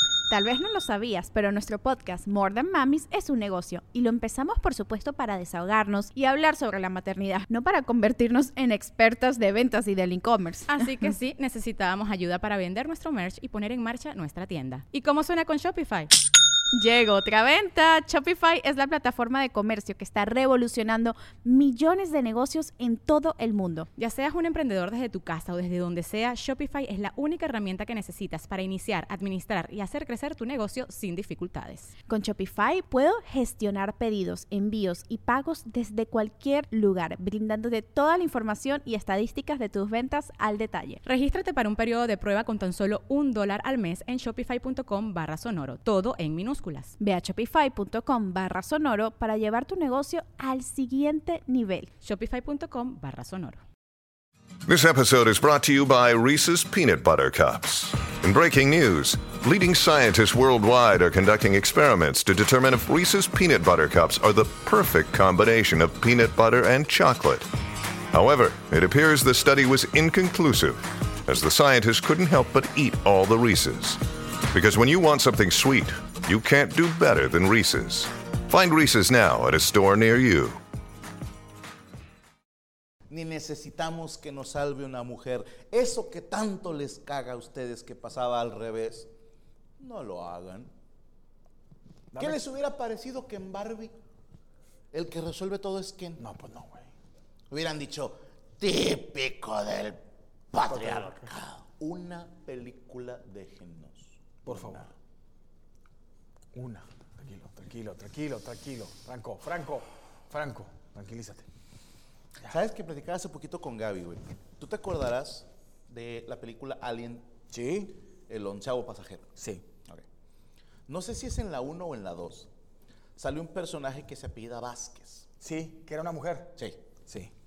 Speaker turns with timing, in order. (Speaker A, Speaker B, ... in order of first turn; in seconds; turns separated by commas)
Speaker A: 0.3-10.8, Speaker B: 10.7-16.1, Speaker A: 16.7-23.9, Speaker B: 23.9-31.9, Speaker A: 32.1-41.0, Speaker B: 41.0-46.9, Speaker A: 47.0-51.9, Speaker B: 52.0-53.6, Speaker C: 54.7-67.5, Speaker C: 68.1-80.6, Speaker D: 83.1-89.1, Speaker D: 89.8-90.7, Speaker E: 92.1-92.4, Speaker D: 92.2-93.9, Speaker D: 94.9-96.2, Speaker E: 96.2-96.9, Speaker D: 97.5-104.9, Speaker E: 100.7-101.2, Speaker E: 104.4-104.9, Speaker E: 106.5-111.5, Speaker D: 112.5-117.2, Speaker E: 117.5-118.0, Speaker D: 118.3-119.2, Speaker E: 119.4-119.6, Speaker D: 120.9-122.5, Speaker D: 123.2-125.2, Speaker E: 125.4-127.3, Speaker D: 126.6-126.8